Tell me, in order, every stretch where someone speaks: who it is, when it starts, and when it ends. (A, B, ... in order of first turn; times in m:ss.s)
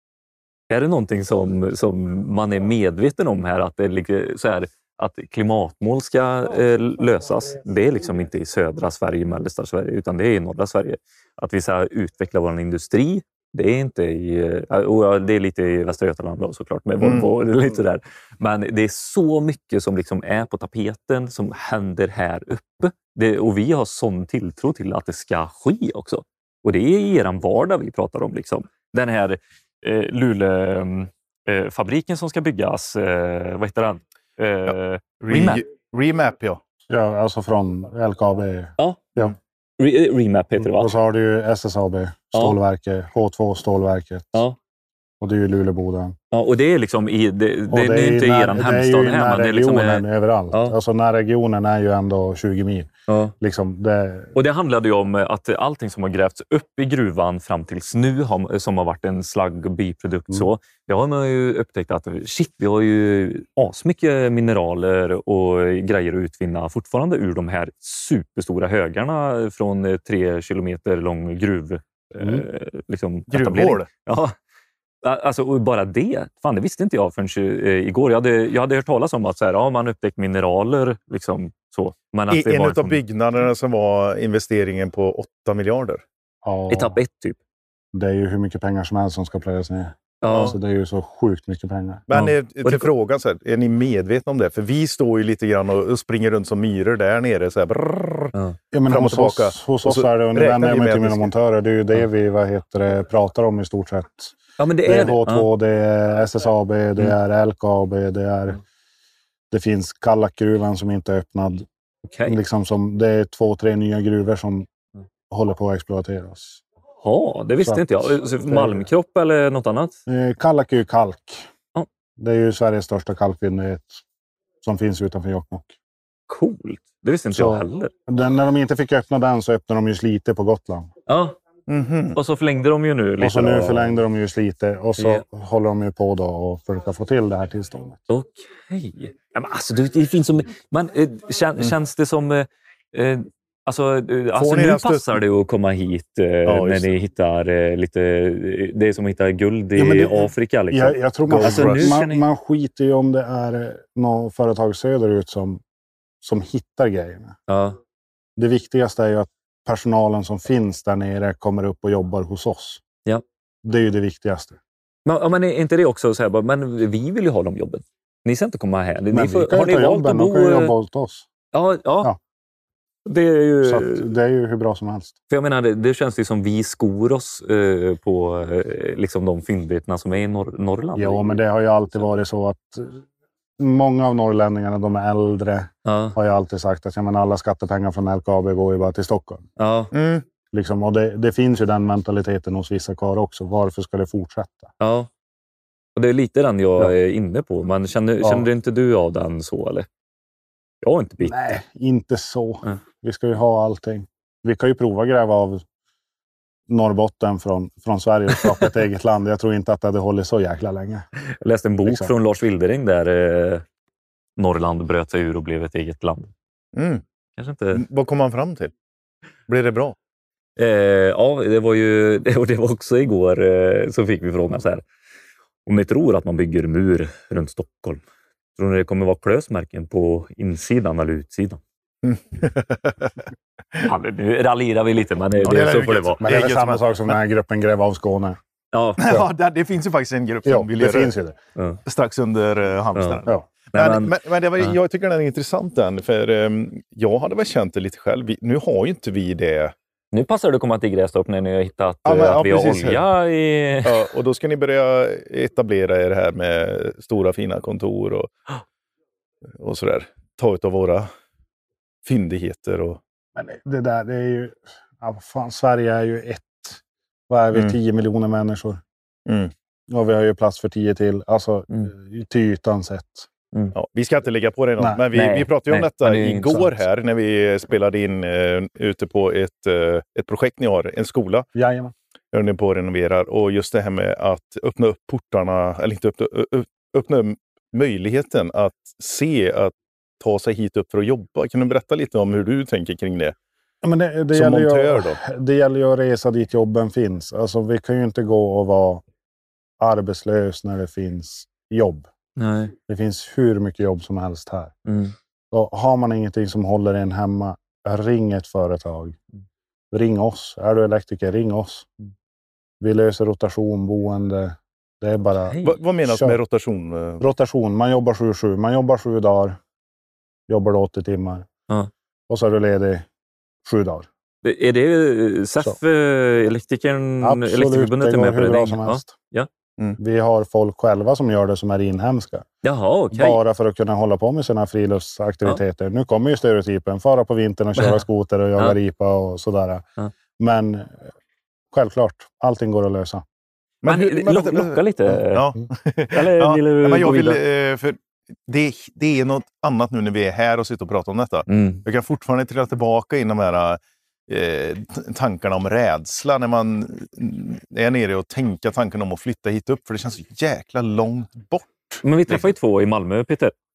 0:00.7-0:35.6 A
0:17.0-0:17.3 B
0:34.7-0:36.6 B
0:36.9-0:39.3 C
0:38.8-0:39.2 A
0:39.8-0:41.0 A
0:40.6-0:44.4 C
0:45.2-0:46.2 C
0:46.3-0:50.8 A
0:47.7-0:52.9 C
0:53.1-0:53.4 A
0:53.4-0:54.3 C
0:54.4-1:14.3 A
1:13.3-1:13.9 B
1:15.0-1:23.0 A
1:22.3-1:26.0 B
1:26.4-1:26.9 C
1:26.7-1:27.4 A
1:27.9-1:32.0 C
1:30.2-1:30.6 A
1:30.3-1:30.6 B
1:32.1-1:38.3 B
1:32.1-1:32.9 A
1:38.7-1:48.6 C
1:38.9-1:41.3 B
1:44.6-1:45.5 A
1:49.5-1:51.7 C
1:52.1-1:52.4 A
1:52.3-1:54.7 C
1:55.3-1:56.6 C
1:57.0-2:00.0 A
1:57.6-1:58.8 C
2:00.1-2:01.5 C
2:02.2-2:04.0 C
2:04.6-2:05.7 C
2:06.3-2:07.9 A
2:07.4-2:10.9 C
2:11.1-2:11.4 A
2:11.7-2:12.2 B
2:12.2-2:14.0 A
2:13.2-2:18.0 C
2:15.0-2:15.2 A
2:18.1-2:32.2 A
2:24.4-2:25.2 B
2:26.5-2:26.9 B
2:29.8-2:35.6 C
2:31.3-2:32.0 B
2:36.2-2:37.4 C
2:37.5-2:37.8 A
2:38.4-2:42.8 C
2:43.6-2:44.6 C
2:45.1-2:50.7 A
2:49.1-2:51.2 C
2:51.5-2:52.1 A
2:53.1-2:54.0 A
2:53.6-2:55.1 C
2:55.3-3:01.2 A
3:01.0-3:03.0 C
3:03.6-3:09.4 C
3:05.8-3:06.2 A
3:09.6-3:09.9 A
3:09.9-3:10.2 B
3:10.5-3:14.7 C
3:14.8-3:15.1 A
3:16.0-3:19.9 A
3:20.8-3:21.4 A
3:21.2-3:25.6 C
3:26.7-3:31.0 C
3:31.4-3:33.6 A
3:31.9-3:32.1 C
3:34.4-3:36.3 A
3:36.8-3:37.0 B
3:37.4-3:37.8 A
3:37.7-3:38.7 B
3:39.5-3:40.0 B
3:40.6-3:44.8 A
3:45.7-3:48.0 A
3:48.6-3:51.6 A
3:52.0-3:53.2 B
3:53.8-3:56.2 A
3:55.4-3:57.1 B
3:56.2-3:58.4 C
3:58.7-3:59.2 A
3:59.0-4:01.1 B
4:00.5-4:01.4 C
4:01.9-4:09.7 B
4:03.0-4:03.2 A
4:03.7-4:04.8 A
4:10.1-4:14.1 A
4:12.1-4:13.0 B
4:13.8-4:18.3 B
4:19.6-4:21.1 B
4:22.0-4:23.0 B
4:23.4-4:28.8 C
4:29.3-4:29.5 B
4:29.9-4:33.3 C
4:33.8-4:41.5 B
4:35.1-4:36.7 A
4:41.6-4:41.9 C
4:42.3-4:53.4 B
4:53.8-4:59.0 C
4:54.3-4:55.2 B
4:59.8-5:02.1 C
5:02.4-5:02.8 A
5:02.9-5:04.7 C
5:04.9-5:05.1 A
5:05.5-5:09.2 C
5:09.9-5:11.9 C
5:12.8-5:16.4 C
5:15.5-5:15.8 A
5:15.6-5:17.2 B
5:17.2-5:19.6 C
5:20.5-5:21.5 C
5:22.3-5:23.1 C
5:23.6-5:24.1 C
5:24.4-5:29.5 A
5:27.2-5:29.1 C
5:30.0-5:32.5 C
5:32.6-5:33.4 A
5:33.1-5:39.8 C
5:37.8-5:38.0 A
5:40.4-5:41.0 C
5:41.7-5:43.2 C
5:43.8-6:02.4 B
5:43.8-5:45.5 A
5:46.1-5:47.4 A
5:51.5-5:51.8 A
6:02.0-6:03.5 A